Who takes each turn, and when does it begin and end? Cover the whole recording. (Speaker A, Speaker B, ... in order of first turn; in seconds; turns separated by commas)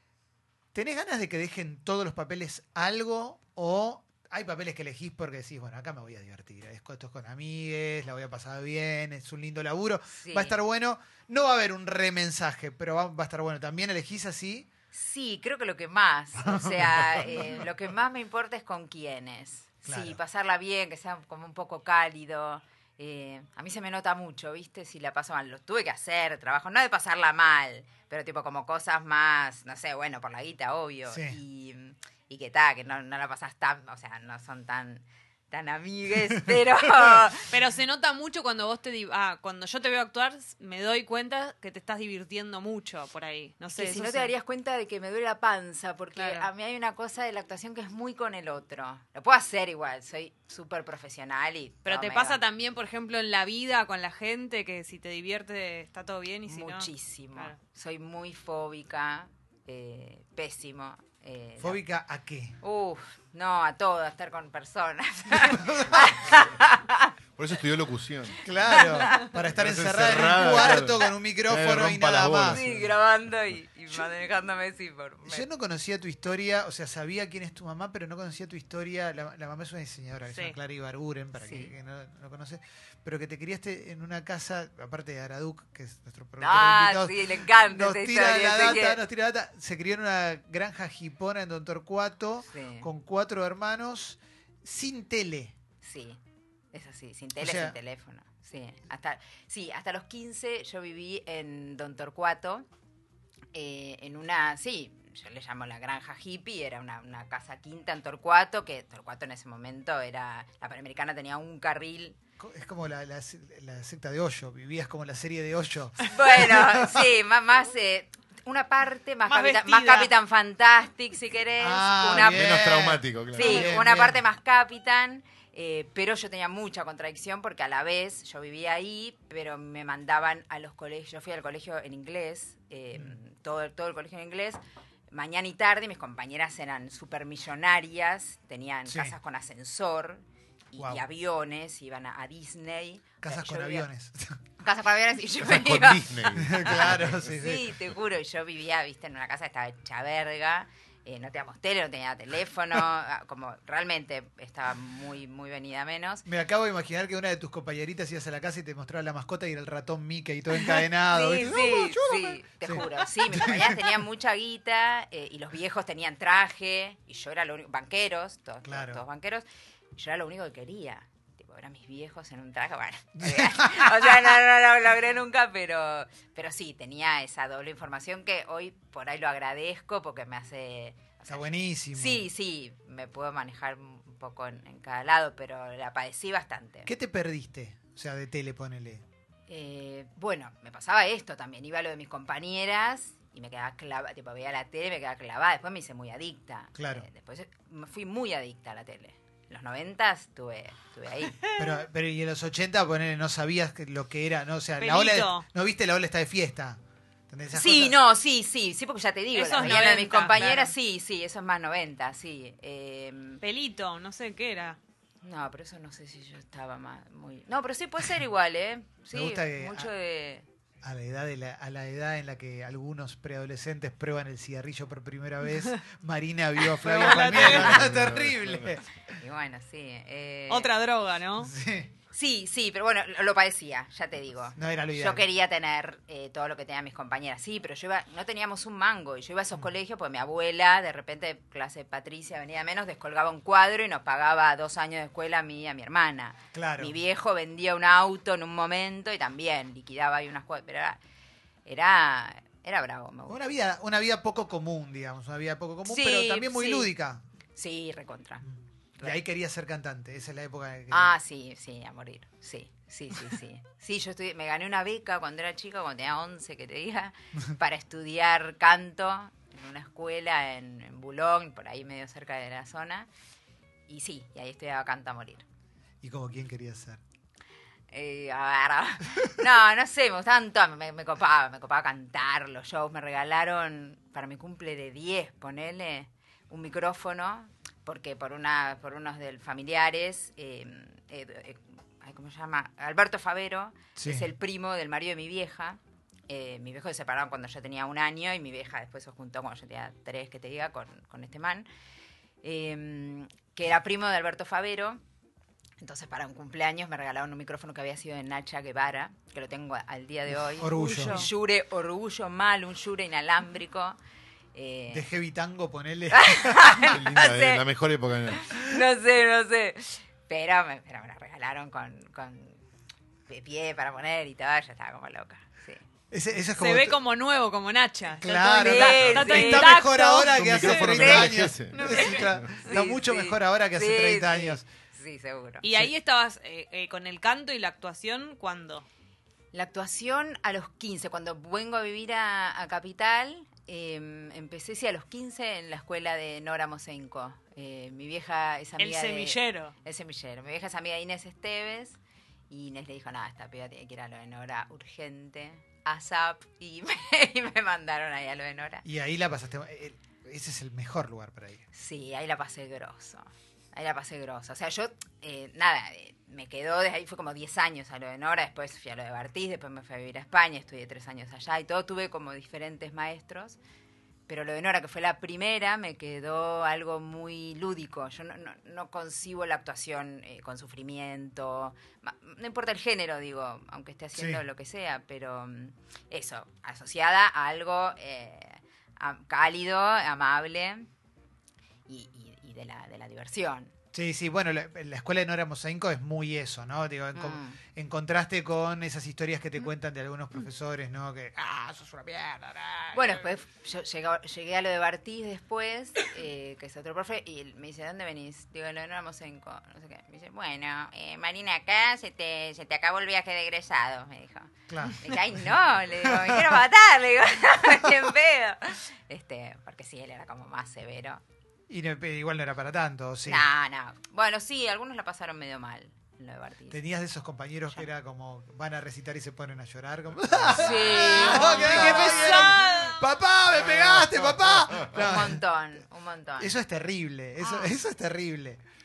Speaker A: 0.7-14.7, Speaker B: 10.1-10.6, Speaker B: 14.9-37.5, Speaker A: 16.4-17.7, Speaker A: 19.9-20.2, Speaker A: 31.1-31.4, Speaker C: 37.4-44.3, Speaker B: 43.7-52.4, Speaker C: 46.1-46.5, Speaker C: 51.9-57.6, Speaker B: 56.5-61.8, Speaker A: 61.6-62.6, Speaker B: 62.6-67.1, Speaker A: 65.3-66.2, Speaker D: 67.3-73.0, Speaker A: 68.4-72.6, Speaker B: 68.7-69.3, Speaker B: 70.4-70.8, Speaker B: 72.5-75.5, Speaker A: 75.2-95.5, Speaker C: 80.3-80.5, Speaker B: 81.4-81.7, Speaker B: 86.4-89.0, Speaker B: 92.5-92.9, Speaker B: 95.8-96.2, Speaker B: 96.7-102.7, Speaker A: 97.4-97.8, Speaker B: 103.5-112.2, Speaker A: 112.4-117.1, Speaker B: 116.0-122.7, Speaker C: 119.3-120.1, Speaker A: 121.6-124.2, Speaker D: 122.1-123.7, Speaker B: 123.3-143.9, Speaker A: 138.9-139.1, Speaker A: 140.8-141.0, Speaker A: 143.2-144.4, Speaker B: 144.6-156.2, Speaker D: 145.4-147.2, Speaker A: 146.3-147.7, Speaker A: 156.2-164.0, Speaker B: 160.9-169.4, Speaker A: 168.6-169.0, Speaker B: 169.9-186.9, Speaker A: 173.2-174.3, Speaker A: 181.3-182.2, Speaker A: 186.8-189.0, Speaker B: 189.5-201.4, Speaker A: 196.8-197.1, Speaker C: 201.4-201.7, Speaker A: 201.6-208.0, Speaker C: 204.8-205.4, Speaker B: 207.5-213.4, Speaker C: 209.3-210.7, Speaker C: 213.4-214.8, Speaker B: 215.2-220.4, Speaker A: 219.1-219.9, Speaker A: 220.8-228.8, Speaker C: 226.7-227.8, Speaker D: 227.3-228.7, Speaker B: 229.1-230.7, Speaker C: 230.5-231.5, Speaker A: 231.4-231.9, Speaker B: 232.1-251.0, Speaker A: 234.6-235.2, Speaker A: 246.5-246.9, Speaker B: 251.6-253.4, Speaker A: 253.3-257.2, Speaker B: 255.8-256.9, Speaker B: 257.6-258.4, Speaker A: 258.4-261.1, Speaker B: 260.9-273.1, Speaker B: 273.9-275.4, Speaker A: 276.0-277.0, Speaker B: 277.9-301.7, Speaker A: 293.9-294.3, Speaker B: 302.4-305.0, Speaker B: 305.8-314.0, Speaker A: 310.3-311.3, Speaker C: 310.7-311.3, Speaker B: 314.5-315.1, Speaker A: 314.9-316.9, Speaker B: 316.1-317.6, Speaker D: 316.8-318.6, Speaker B: 318.4-322.6, Speaker B: 323.3-325.8, Speaker A: 326.1-327.0, Speaker C: 326.5-332.4, Speaker A: 328.2-334.7, Speaker B: 328.6-329.8, Speaker D: 330.3-332.5, Speaker B: 331.0-331.3, Speaker B: 332.6-335.6, Speaker C: 335.6-338.8, Speaker B: 339.5-352.0, Speaker C: 348.8-349.7, Speaker B: 352.5-358.8, Speaker A: 358.8-361.6, Speaker B: 361.7-373.6, Speaker B: 374.3-390.9, Speaker A: 384.1-384.4, Speaker B: 391.9-393.7, Speaker A: 393.9-403.3, Speaker B: 397.1-397.6, Speaker B: 402.9-421.2, Speaker A: 414.7-416.6, Speaker A: 421.7-423.5, Speaker B: 423.2-426.8, Speaker A: 426.7-435.4, Speaker D: 430.3-431.1, Speaker B: 430.5-432.7, Speaker C: 431.0-433.1, Speaker D: 433.6-435.1, Speaker B: 434.9-436.5, Speaker A: 436.4-438.6, Speaker B: 437.4-437.7